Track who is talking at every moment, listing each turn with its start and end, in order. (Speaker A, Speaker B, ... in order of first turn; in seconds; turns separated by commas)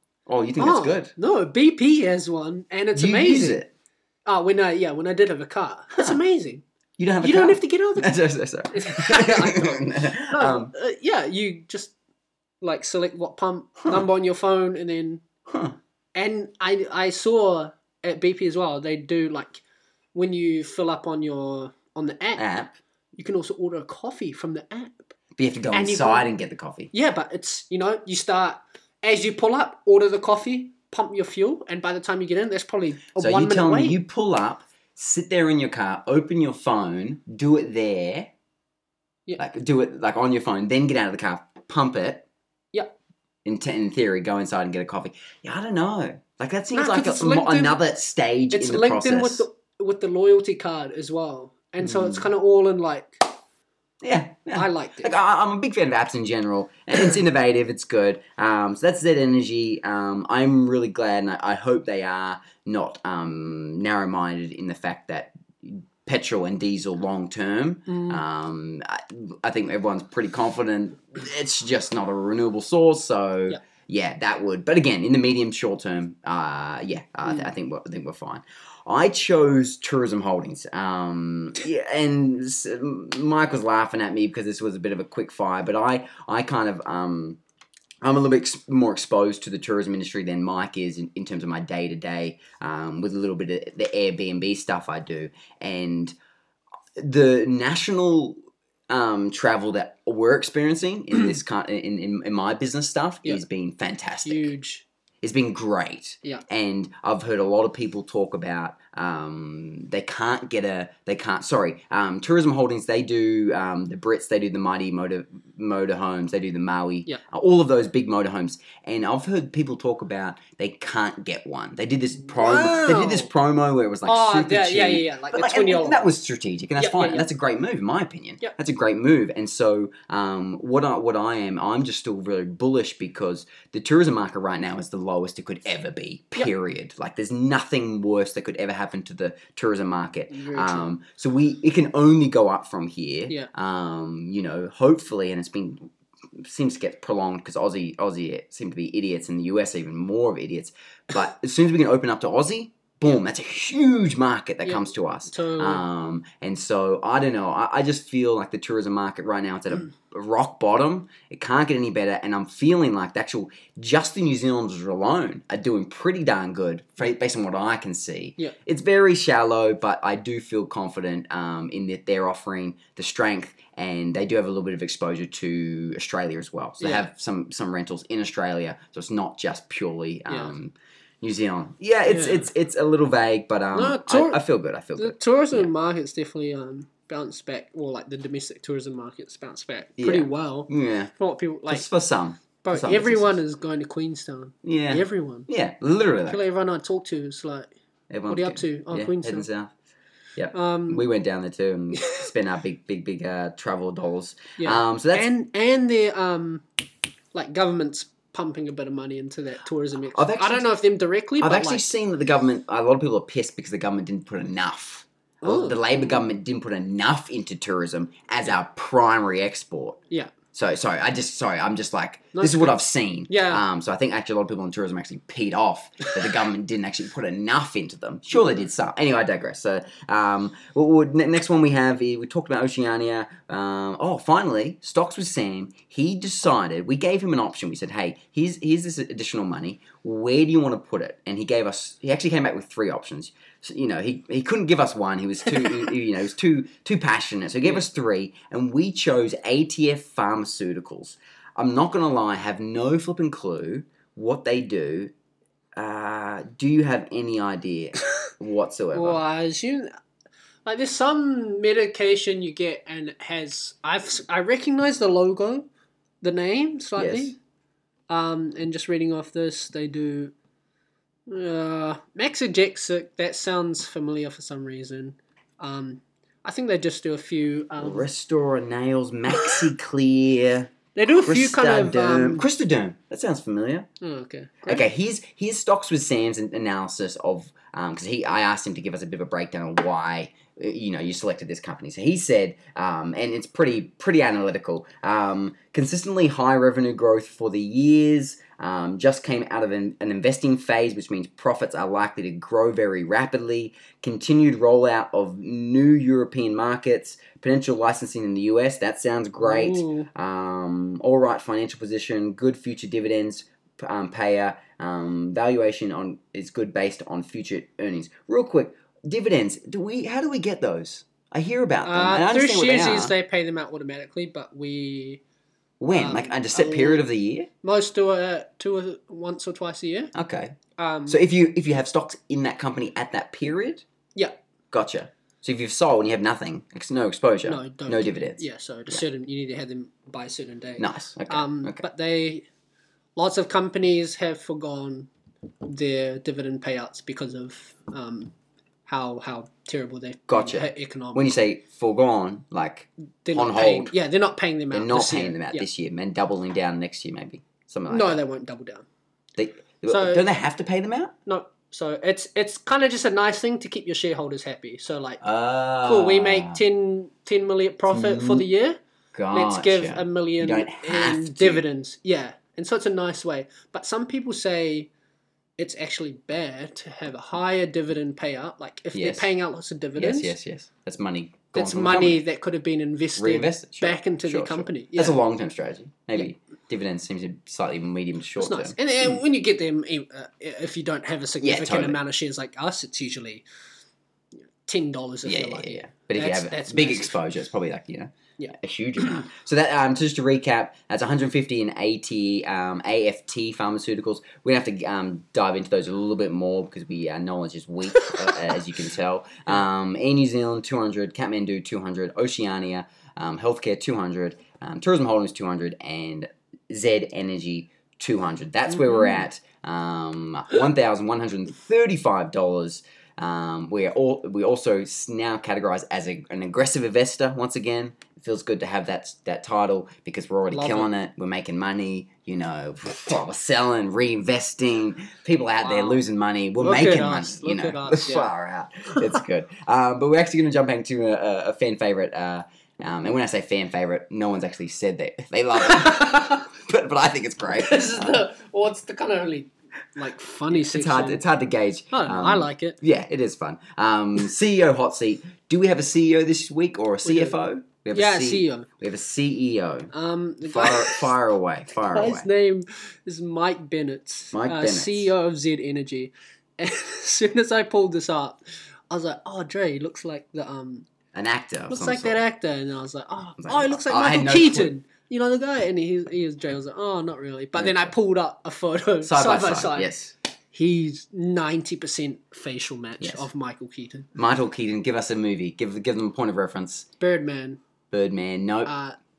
Speaker A: 0.3-1.1, Speaker B: 0.6-3.6, Speaker A: 2.9-3.7, Speaker B: 4.2-6.6, Speaker A: 7.0-10.7, Speaker B: 7.2-8.1, Speaker B: 8.7-11.9, Speaker B: 12.6-15.2, Speaker A: 15.5-15.8, Speaker B: 16.1-19.6, Speaker B: 20.1-22.4, Speaker A: 22.4-22.7, Speaker B: 23.2-25.1, Speaker A: 25.4-26.9, Speaker B: 25.7-26.3, Speaker B: 26.9-34.0, Speaker A: 33.2-38.3, Speaker A: 39.4-42.2, Speaker A: 43.4-49.4, Speaker B: 46.7-47.8, Speaker B: 48.5-53.3, Speaker A: 51.8-52.3, Speaker A: 54.0-87.4, Speaker B: 54.5-55.1, Speaker B: 67.9-68.2, Speaker B: 77.2-77.5, Speaker A: 88.0-96.1, Speaker A: 97.0-104.5, Speaker B: 104.2-104.8, Speaker A: 105.2-185.7, Speaker B: 122.3-123.3, Speaker B: 124.0-126.1, Speaker B: 126.8-127.3, Speaker B: 140.3-140.9, Speaker B: 154.6-155.8, Speaker B: 176.8-177.1, Speaker B: 182.1-182.5, Speaker B: 183.7-184.4, Speaker B: 184.9-191.9, Speaker A: 190.0-191.1, Speaker A: 191.7-193.4, Speaker B: 192.6-195.5, Speaker A: 194.6-196.4, Speaker B: 196.3-197.7, Speaker A: 198.1-199.7, Speaker B: 198.3-199.5, Speaker A: 200.4-205.3, Speaker B: 200.5-201.0, Speaker B: 201.9-202.3, Speaker B: 204.6-206.7, Speaker B: 207.3-211.9, Speaker A: 210.1-210.7, Speaker A: 211.4-220.0, Speaker B: 215.4-216.2, Speaker A: 220.5-255.1, Speaker B: 222.3-223.6, Speaker A: 255.8-259.2, Speaker B: 258.9-259.9, Speaker B: 260.6-265.7, Speaker B: 266.2-267.4, Speaker A: 267.0-267.3, Speaker B: 268.1-270.3, Speaker B: 271.3-278.1, Speaker A: 277.8-283.9, Speaker B: 279.4-279.6, Speaker B: 280.9-282.4, Speaker B: 284.0-284.8, Speaker A: 284.6-323.1, Speaker B: 309.4-310.1, Speaker B: 321.8-325.2, Speaker A: 325.8-327.5, Speaker B: 325.9-327.0, Speaker B: 327.6-330.1, Speaker A: 330.1-330.5, Speaker B: 330.8-331.2, Speaker A: 331.1-333.8, Speaker A: 334.7-339.0, Speaker B: 337.4-342.4, Speaker A: 340.8-341.8, Speaker B: 343.1-345.1, Speaker B: 345.6-348.3, Speaker B: 348.9-351.3, Speaker A: 350.3-353.9, Speaker B: 353.2-355.6, Speaker A: 354.7-358.2, Speaker B: 357.9-358.9, Speaker A: 359.4-361.1, Speaker B: 359.9-360.3, Speaker B: 361.2-365.2, Speaker A: 365.2-366.6, Speaker B: 365.8-368.8, Speaker A: 367.9-368.4, Speaker A: 369.1-371.6, Speaker B: 369.3-374.9, Speaker B: 375.6-380.4, Speaker A: 378.9-379.3, Speaker A: 379.9-382.2, Speaker B: 381.5-385.2, Speaker A: 383.2-389.2, Speaker B: 388.4-393.4, Speaker A: 391.4-392.0, Speaker B: 394.5-397.2, Speaker A: 395.2-448.2, Speaker B: 407.9-408.4, Speaker B: 418.7-419.2, Speaker B: 430.5-430.9, Speaker B: 435.6-436.0, Speaker B: 436.6-438.3, Speaker B: 445.6-446.4, Speaker B: 447.5-451.2, Speaker A: 450.5-459.9, Speaker B: 451.9-452.8, Speaker B: 457.0-457.4, Speaker B: 457.9-458.7, Speaker B: 459.9-461.1, Speaker A: 460.4-462.3, Speaker B: 461.9-470.9, Speaker A: 464.3-465.1, Speaker A: 471.1-472.2, Speaker B: 471.7-479.9, Speaker A: 473.4-474.7, Speaker A: 477.5-477.9, Speaker A: 479.0-480.1, Speaker B: 480.5-484.1, Speaker A: 483.0-483.3, Speaker A: 484.1-486.9, Speaker B: 487.0-487.6, Speaker A: 487.9-488.7, Speaker B: 488.6-488.9